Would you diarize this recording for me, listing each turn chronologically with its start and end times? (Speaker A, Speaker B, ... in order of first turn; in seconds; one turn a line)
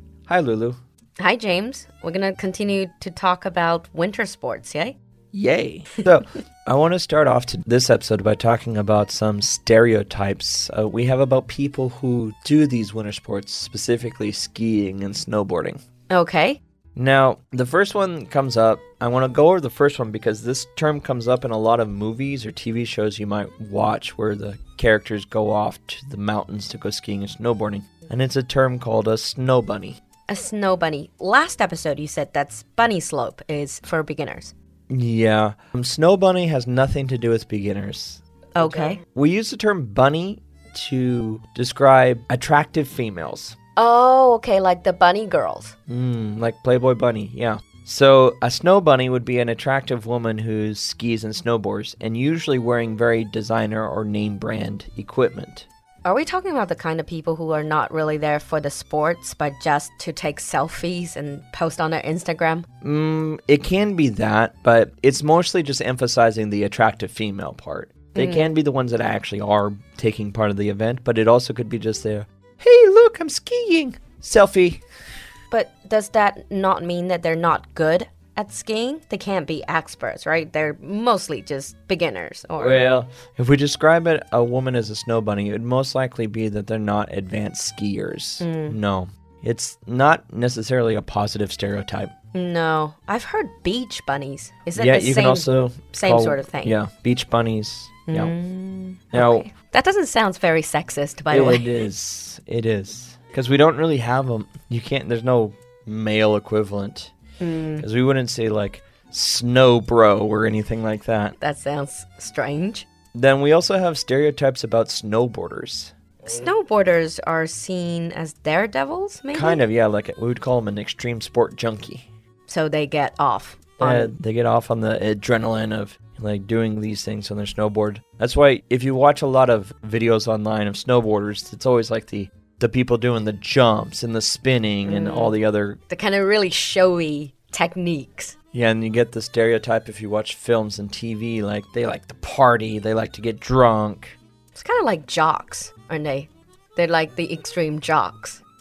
Speaker A: 0.3-0.8
Speaker B: 1.2-5.0
Speaker A: 5.3-15.8
Speaker B: 16.1-16.6
Speaker A: 16.9-30.0
Speaker B: 30.3-34.5
Speaker A: 34.9-38.2
Speaker B: 38.5-39.0
Speaker A: 39.1-43.5
Speaker B: 43.8-45.7
Speaker A: 45.9-55.7
Speaker B: 56.0-62.7
Speaker A: 62.8-74.8
Speaker B: 68.1-68.5
Speaker B: 75.5-82.8
Speaker A: 82.6-92.1
Speaker B: 88.4-88.8
Speaker B: 92.3-96.8
Speaker A: 94.7-98.3
Speaker B: 98.1-101.8
Speaker A: 99.1-99.5
Speaker A: 101.3-107.1
Speaker B: 107.4-107.8
Speaker A: 107.8-111.3
Speaker B: 111.4-112.9
Speaker A: 113.1-115.9
Speaker B: 116.2-119.6
Speaker A: 119.3-122.1
Speaker B: 122.5-124.1
Speaker A: 123.8-135.8
Speaker B: 134.8-135.3
Speaker B: 135.9-138.3
Speaker A: 138.5-144.2
Speaker B: 144.5-148.4